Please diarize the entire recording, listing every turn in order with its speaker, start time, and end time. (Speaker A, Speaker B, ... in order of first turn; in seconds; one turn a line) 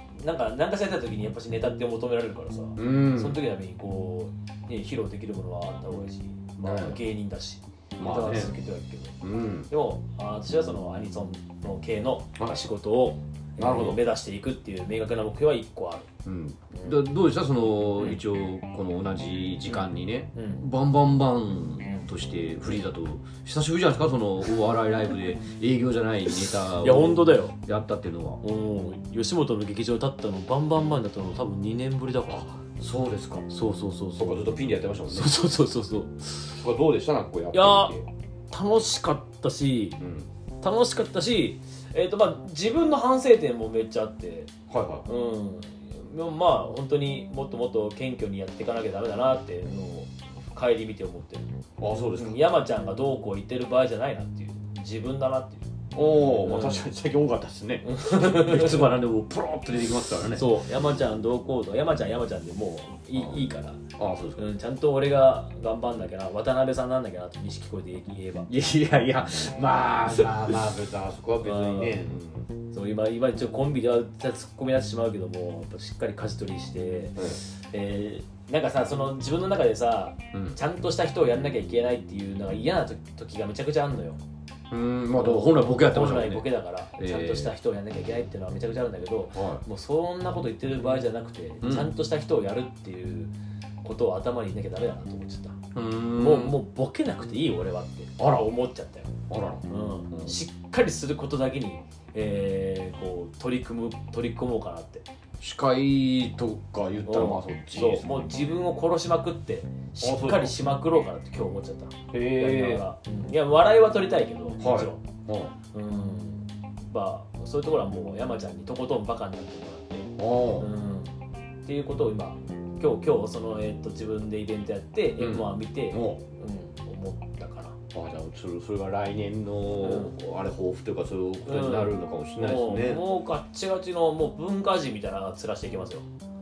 Speaker A: 0.2-9.2
Speaker B: 2.8-3.4
Speaker B: 6.6-7.0
Speaker B: 8.0-8.5
Speaker B: 9.2-9.7
Speaker A: 9.7-16.1
Speaker B: 13.6-14.0
Speaker B: 16.2-28.4
Speaker A: 16.7-17.0
Speaker A: 19.7-20.6
Speaker A: 21.8-22.1
Speaker A: 26.3-27.5
Speaker A: 28.4-32.5
Speaker B: 32.3-33.5
Speaker A: 33.5-34.5
Speaker B: 34.2-35.3
Speaker A: 35.1-36.5
Speaker B: 36.5-38.1
Speaker A: 37.5-38.0
Speaker A: 38.5-40.0
Speaker B: 40.0-40.3
Speaker A: 40.6-44.5
Speaker B: 44.7-45.1
Speaker A: 45.1-51.5
Speaker B: 51.8-52.4
Speaker A: 52.1-56.9
Speaker B: 55.9-60.5
Speaker A: 57.8-58.9
Speaker A: 60.3-63.8
Speaker B: 63.2-63.4
Speaker B: 64.0-64.5
Speaker A: 64.4-68.5
Speaker B: 68.5-72.5
Speaker A: 71.4-72.0
Speaker A: 72.7-84.2
Speaker B: 80.3-80.6
Speaker B: 84.7-87.5
Speaker A: 85.2-93.3
Speaker B: 89.3-89.6
Speaker B: 91.6-91.9
Speaker A: 93.8-95.6
Speaker B: 95.7-96.6
Speaker A: 96.2-99.1
Speaker B: 98.2-98.5
Speaker B: 99.3-100.4
Speaker A: 99.7-105.1
Speaker B: 105.4-108.1
Speaker A: 107.1-115.0
Speaker B: 110.0-110.5
Speaker B: 112.1-112.8
Speaker B: 114.6-115.5
Speaker A: 115.7-121.1
Speaker B: 120.2-120.7
Speaker A: 121.7-127.8
Speaker B: 125.2-126.2
Speaker B: 127.9-133.0
Speaker A: 129.8-130.1
Speaker A: 131.5-136.1